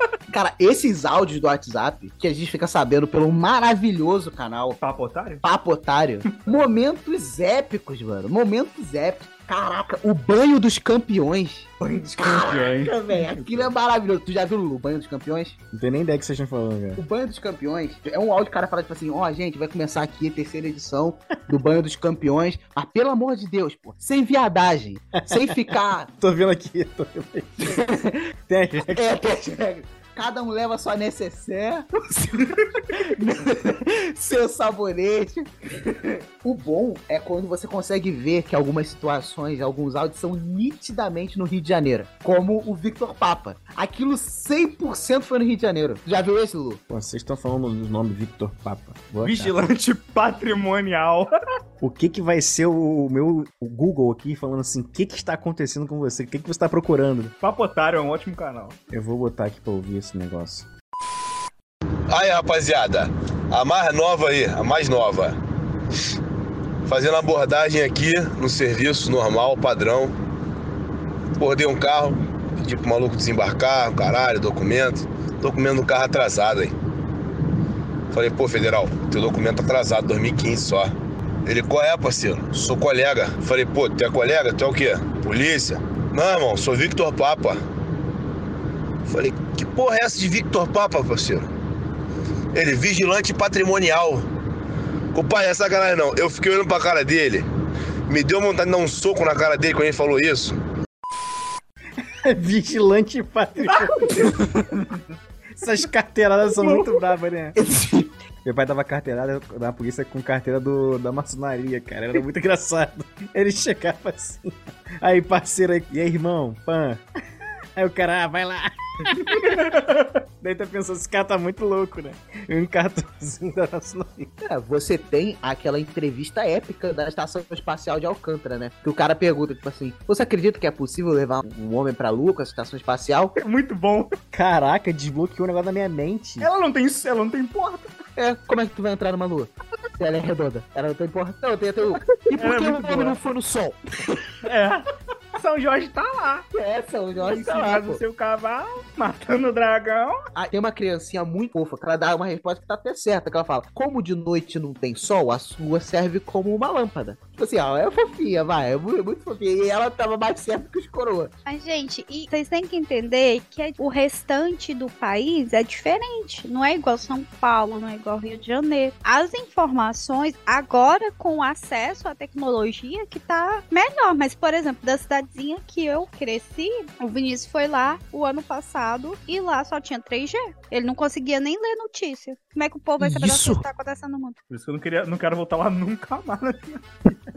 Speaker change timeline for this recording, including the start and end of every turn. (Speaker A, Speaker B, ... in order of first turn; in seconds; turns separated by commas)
Speaker A: 0.3-4.8, Speaker B: 4.8-5.4, Speaker A: 5.4-15.6, Speaker B: 12.2-13.7, Speaker C: 15.7-17.0, Speaker A: 17.0-26.1, Speaker C: 25.2-27.8, Speaker A: 27.6-28.2, Speaker C: 28.5-29.1, Speaker A: 28.9-46.8, Speaker C: 46.9-49.5, Speaker B: 49.2-51.3, Speaker C: 51.8-57.4, Speaker B: 57.4-58.8, Speaker C: 58.9-60.7, Speaker D: 62.1-65.4, Speaker D: 66.8-70.1, Speaker D: 71.4-76.7, Speaker D: 78.1-80.9, Speaker D: 81.5-87.6, Speaker D: 89.1-91.5, Speaker D: 92.5-94.3, Speaker D: 95.1-97.5, Speaker D: 98.1-100.6, Speaker C: 102.0-104.3, Speaker B: 103.7-104.5, Speaker C: 105.6-107.6, Speaker A: 107.6-108.1, Speaker C: 108.4-117.0, Speaker C: 117.8-119.7, Speaker B: 119.1-120.2, Speaker C: 120.4-124.3, Speaker A: 124.4-133.3, Speaker B: 133.4-134.2, Speaker C: 134.3-136.5, Speaker B: 136.4-137.9, Speaker A: 138.2-144.3, Speaker B: 142.3-143.2, Speaker B: 144.4-146.5, Speaker A: 146.5-148.0, Speaker B: 147.2-150.2, Speaker A: 150.3-161.3, Speaker E: 161.5-184.4, Speaker A: 183.0-183.6, Speaker B: 184.5-187.1